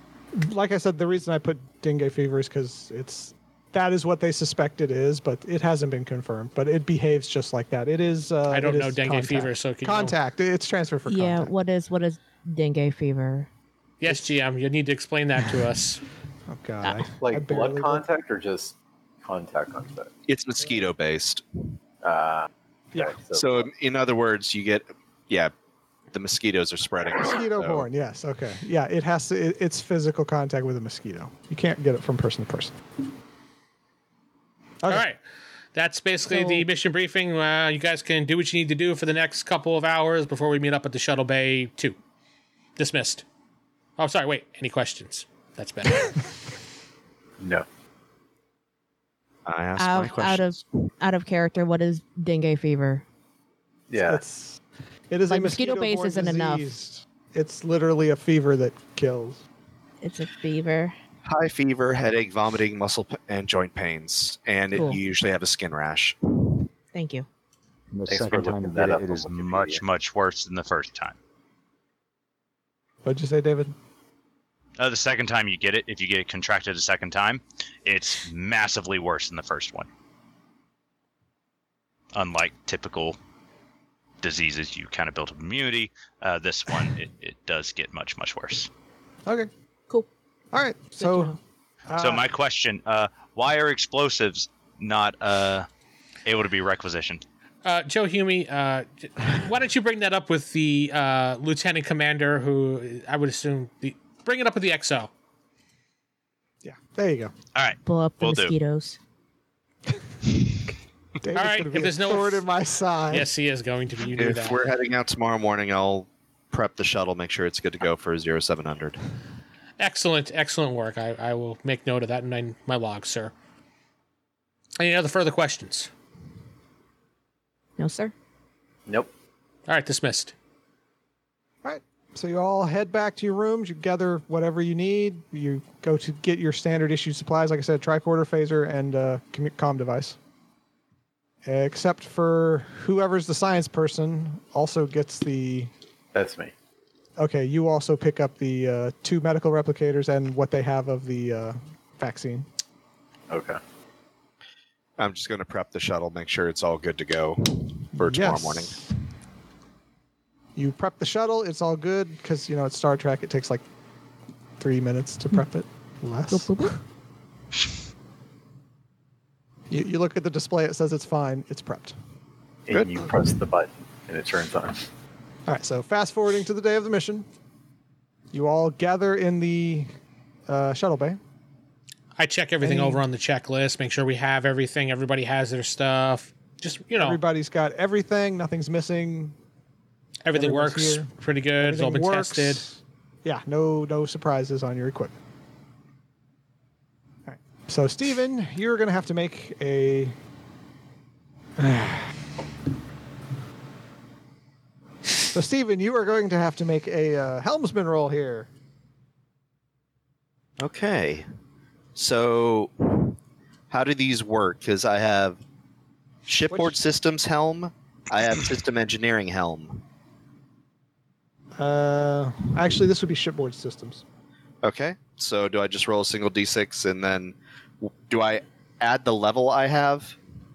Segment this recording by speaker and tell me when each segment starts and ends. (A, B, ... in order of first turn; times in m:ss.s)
0:00.3-0:11.5 A
0:08.5-0:10.2 B
0:11.1-0:13.5 C
0:14.0-0:16.0 B
0:16.5-0:18.0 A
0:17.2-0:20.1 D
0:20.3-0:21.4 E
0:22.0-0:23.7 D
0:23.3-0:25.5 E
0:26.1-0:27.9 E
0:27.2-0:32.8 A
0:34.9-0:35.2 B
0:35.8-0:42.0 B
0:36.3-0:36.7 C
0:42.8-0:43.2 B
0:44.0-0:46.4 B
0:47.4-0:47.6 D
0:49.5-0:50.6 E
0:49.8-0:53.0 C
0:53.9-0:54.2 D
0:54.0-0:59.4 A
0:55.3-0:56.7 C
1:00.0-1:01.0 C
1:01.3-1:06.7 E
1:04.7-1:05.0 C
1:06.9-1:07.3 C
1:07.9-1:11.2 F
1:08.1-1:09.8 D
1:13.0-1:13.7 A
1:14.8-1:19.9 F
1:22.1-1:23.2 F
1:24.2-1:28.7 F
1:30.5-1:31.4 A
1:31.0-1:31.3 C
1:31.9-1:32.3 A
1:32.0-1:35.7 F
1:36.2-1:37.2 F
1:37.6-1:45.1 B
1:46.6-1:47.3 A
1:47.6-1:48.6 F
1:47.8-1:49.0 C
1:51.2-1:53.3 A
1:51.4-1:52.4 B
1:53.1-1:54.6 B
1:54.1-1:59.0 E
1:59.8-2:03.3 B
2:04.8-2:05.9 B
2:07.8-2:08.1 C
2:09.7-2:10.3 B
2:11.6-2:20.2 A
2:21.4-2:25.7 A
2:26.1-2:26.5 D
2:27.2-2:32.5 A
2:33.3-2:33.6 D
2:35.0-2:38.8 E
2:38.0-2:38.9 A
2:40.6-2:43.6 A
2:44.6-2:46.8 A
2:46.3-2:46.8 C
2:49.7-2:52.0 A
2:52.7-2:54.8 D
2:52.7-2:53.0 E
2:55.5-2:57.3 A
2:58.3-2:59.9 A
3:00.5-3:01.2 A
3:02.2-3:07.2 B
3:02.6-3:03.0 A
3:07.0-3:09.4 A
3:10.2-3:12.7 B
3:10.4-3:15.2 A
3:17.3-3:20.2 A
3:21.6-3:22.2 A
3:25.3-3:28.5 A
3:30.6-3:31.3 E
3:32.0-3:33.2 E
3:33.7-3:35.4 E
3:36.3-3:39.8 E
3:36.5-3:36.8 A
3:41.6-3:44.0 A
3:44.6-3:50.2 E